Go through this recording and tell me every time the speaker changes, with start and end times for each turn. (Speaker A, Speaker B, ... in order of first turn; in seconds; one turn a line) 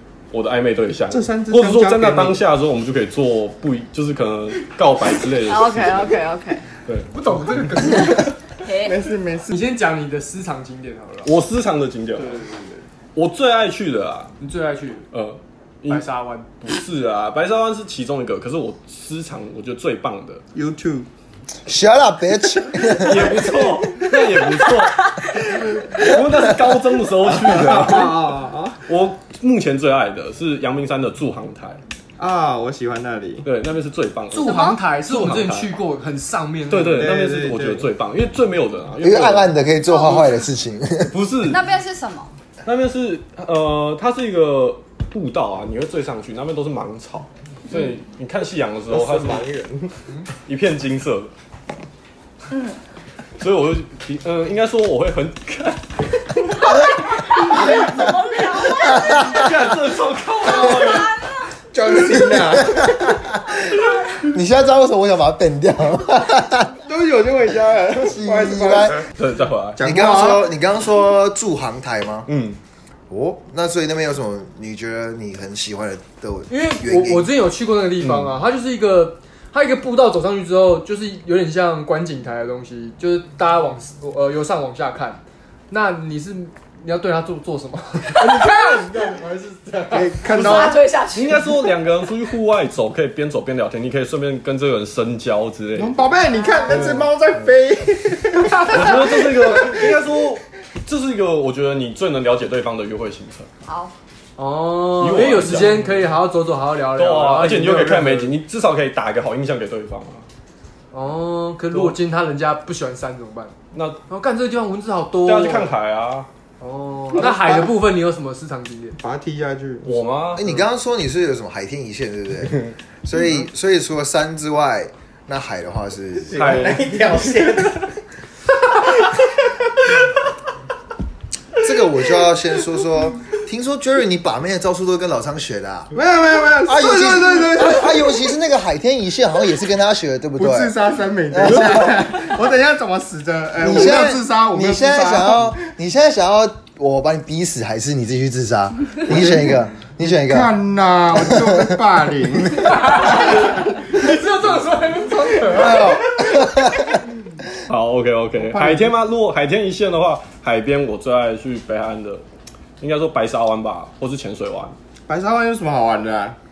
Speaker A: 0.3-6.2
Speaker B: 1.1-2.4
Speaker C: 5.4-6.6
Speaker A: 6.9-7.1
Speaker D: 7.1-8.3
Speaker C: 8.6-9.0
Speaker B: 8.8-9.6
Speaker D: 9.5-11.3
Speaker A: 11.2-12.4
Speaker D: 12.2-12.8
Speaker A: 13.2-14.3
Speaker D: 14.4-15.1
Speaker A: 15.1-16.0
Speaker D: 15.9-16.5
Speaker A: 16.6-20.4
Speaker B: 20.5-21.1
Speaker E: 21.7-23.8
Speaker A: 22.8-31.8
Speaker B: 27.4-28.8
Speaker B: 32.2-33.5
Speaker A: 33.4-35.8
Speaker C: 34.3-34.8
Speaker D: 34.3-37.1
Speaker A: 36.7-39.6
Speaker B: 37.0-37.9
Speaker E: 39.0-41.1
Speaker C: 39.9-40.4
Speaker A: 41.1-41.6
Speaker C: 41.5-42.3
Speaker A: 42.7-49.4
Speaker B: 48.9-50.0
Speaker A: 50.5-51.3
Speaker C: 52.5-52.8
Speaker A: 53.4-56.8
Speaker C: 56.5-59.5
Speaker A: 57.5-57.8
Speaker A: 58.8-61.1
Speaker C: 60.5-61.5
Speaker B: 61.7-63.2
Speaker E: 62.4-66.7
Speaker B: 66.8-69.0
Speaker E: 68.0-69.0
Speaker A: 69.1-69.8
Speaker B: 69.8-70.5
Speaker E: 69.8-72.3
Speaker A: 72.3-72.6
Speaker E: 73.1-77.3
Speaker D: 76.5-90.2
Speaker A: 78.0-78.4
Speaker B: 89.9-90.9
Speaker C: 90.3-91.6
Speaker A: 91.1-96.0
Speaker B: 95.8-100.0
Speaker C: 96.3-97.0
Speaker A: 98.7-103.5
Speaker C: 103.7-103.9
Speaker D: 104.4-108.3
Speaker A: 105.0-106.0
Speaker A: 107.0-110.2
Speaker D: 110.9-113.5
Speaker A: 111.7-112.0
Speaker A: 113.7-114.0
Speaker D: 114.1-115.7
Speaker A: 115.2-116.3
Speaker D: 116.6-119.0
Speaker B: 117.2-117.7
Speaker B: 119.0-120.0
Speaker A: 119.8-120.5
Speaker E: 120.3-126.6
Speaker B: 126.2-127.9
Speaker A: 126.4-126.9
Speaker B: 128.6-129.9
Speaker E: 131.6-135.9
Speaker B: 135.9-138.3
Speaker E: 136.6-140.8
Speaker B: 140.4-145.6
Speaker E: 141.3-142.1
Speaker E: 143.6-150.5
Speaker B: 149.1-149.4
Speaker B: 150.0-153.3
Speaker E: 151.2-151.8
Speaker D: 152.8-156.0
Speaker B: 155.5-156.4
Speaker E: 155.5-157.0
Speaker A: 157.7-162.2
Speaker B: 158.4-158.9
Speaker A: 162.8-164.8
Speaker B: 165.1-166.4